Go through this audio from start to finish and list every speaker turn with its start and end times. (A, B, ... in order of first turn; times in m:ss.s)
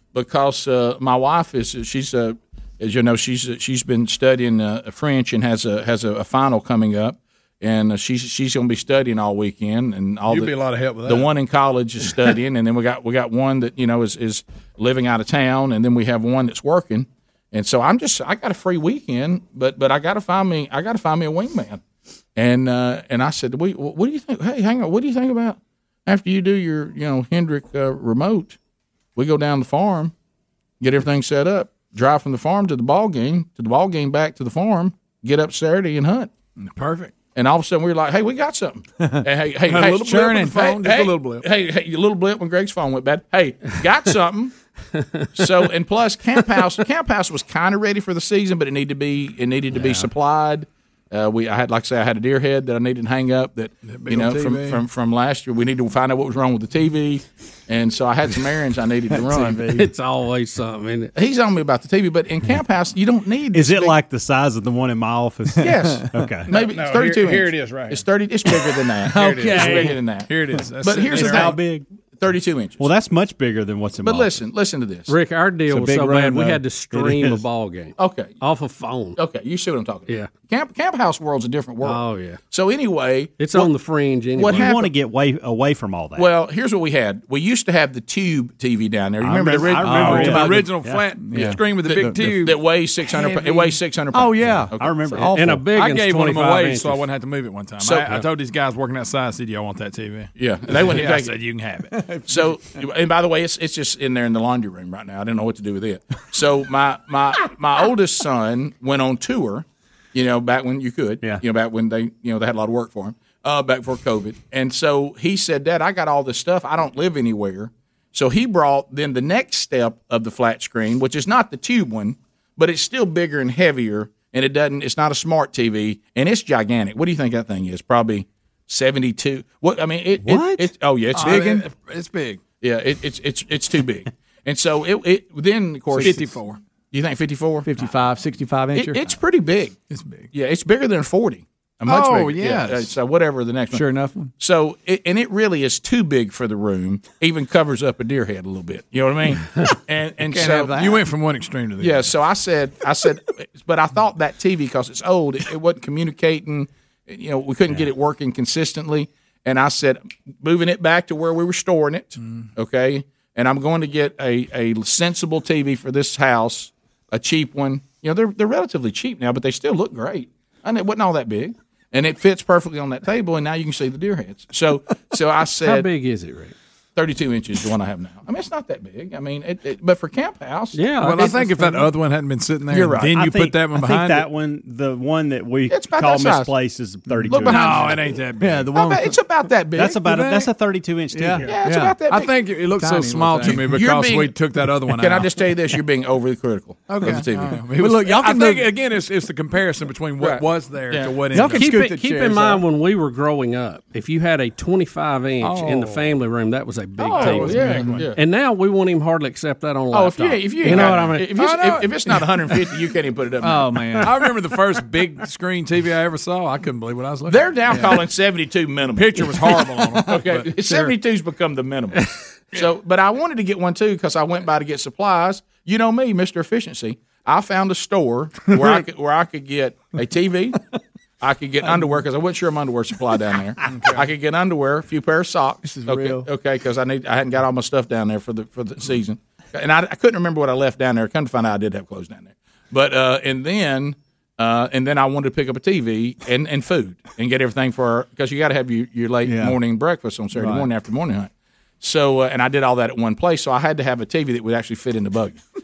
0:00.1-0:21.8 A
0:10.3-0:11.3 B
0:22.4-0:28.6 A
0:29.2-0:30.1 A
0:30.8-0:36.3 A
0:36.6-0:37.1 B
0:37.4-0:44.5 A
0:39.7-0:41.5 B
0:44.9-0:45.5 C
0:45.3-0:59.6 A
0:53.9-0:54.8 B
0:59.3-1:01.1 C
1:01.2-1:04.0 A
1:03.5-1:06.5 D
1:05.6-1:10.3 A
1:05.6-1:06.1 E
1:06.5-1:08.0 B
1:09.0-1:11.6 B
1:09.2-1:09.9 E
1:10.8-1:11.6 A
1:11.1-1:11.8 D
1:12.2-1:12.9 A
1:12.8-1:14.3 D
1:14.0-1:15.1 A
1:15.1-1:19.2 C
1:15.7-1:17.4 E
1:18.0-1:18.4 A
1:19.2-1:23.7 A
1:21.8-1:22.4 C
1:23.4-1:24.7 C
1:24.4-1:24.9 A
1:24.4-1:26.3 D
1:26.2-1:30.4 A
1:29.2-1:31.1 D
1:29.8-1:32.4 E
1:29.9-1:32.6 B
1:31.4-1:35.2 A
1:34.1-1:35.6 E
1:34.8-1:35.4 D
1:35.3-1:37.0 C
1:35.7-1:42.0 B
1:37.8-1:38.2 A
1:40.4-1:41.4 A
1:41.9-1:42.5 E
1:42.3-2:11.7 A
2:10.2-2:10.7 E
2:11.1-2:12.4 B
2:12.6-2:16.3 A
2:15.9-2:16.2 E
2:16.0-2:16.6 B
2:16.9-2:17.8 A
2:17.6-2:19.1 E
2:18.7-2:19.8 A
2:19.9-2:20.3 B
2:20.3-2:23.9 A
2:21.9-2:22.8 B
2:21.9-2:22.5 E
2:23.7-2:24.3 E
2:24.4-2:30.8 A
2:30.2-2:31.0 E
2:30.7-2:32.1 B
2:31.8-2:55.9 A
2:55.6-2:56.6 C
2:57.0-3:01.3 A
3:00.7-3:01.9 C
3:01.0-3:04.3 B
3:02.7-3:03.1 A
3:03.1-3:08.0 D
3:05.7-3:06.5 A
3:07.3-3:08.0 A
3:07.5-3:08.7 B
3:08.4-3:09.2 E
3:08.7-3:10.1 A
3:09.7-3:11.6 D
3:10.1-3:10.4 B
3:11.1-3:12.0 E
3:11.4-3:12.3 A
3:12.1-3:15.3 B
3:12.7-3:13.8 E
3:13.4-3:14.4 A
3:14.9-3:17.6 A
3:16.9-3:21.7 B
3:17.0-3:18.7 E
3:20.2-3:21.2 A
3:21.3-3:22.6 E
3:21.4-3:31.3 C
3:25.4-3:26.1 B
3:27.1-3:28.2 A
3:27.2-3:28.0 B
3:27.2-3:28.0 E
3:29.9-3:34.1 A
3:30.7-3:32.2 B
3:33.4-3:34.2 E
3:34.0-3:38.0 B
3:37.3-3:50.6 A
3:39.0-3:40.5 B
3:51.2-4:11.3 A
3:55.6-3:56.3 E
4:09.2-4:09.6 E
4:10.3-4:10.7 E
4:11.8-4:15.4 A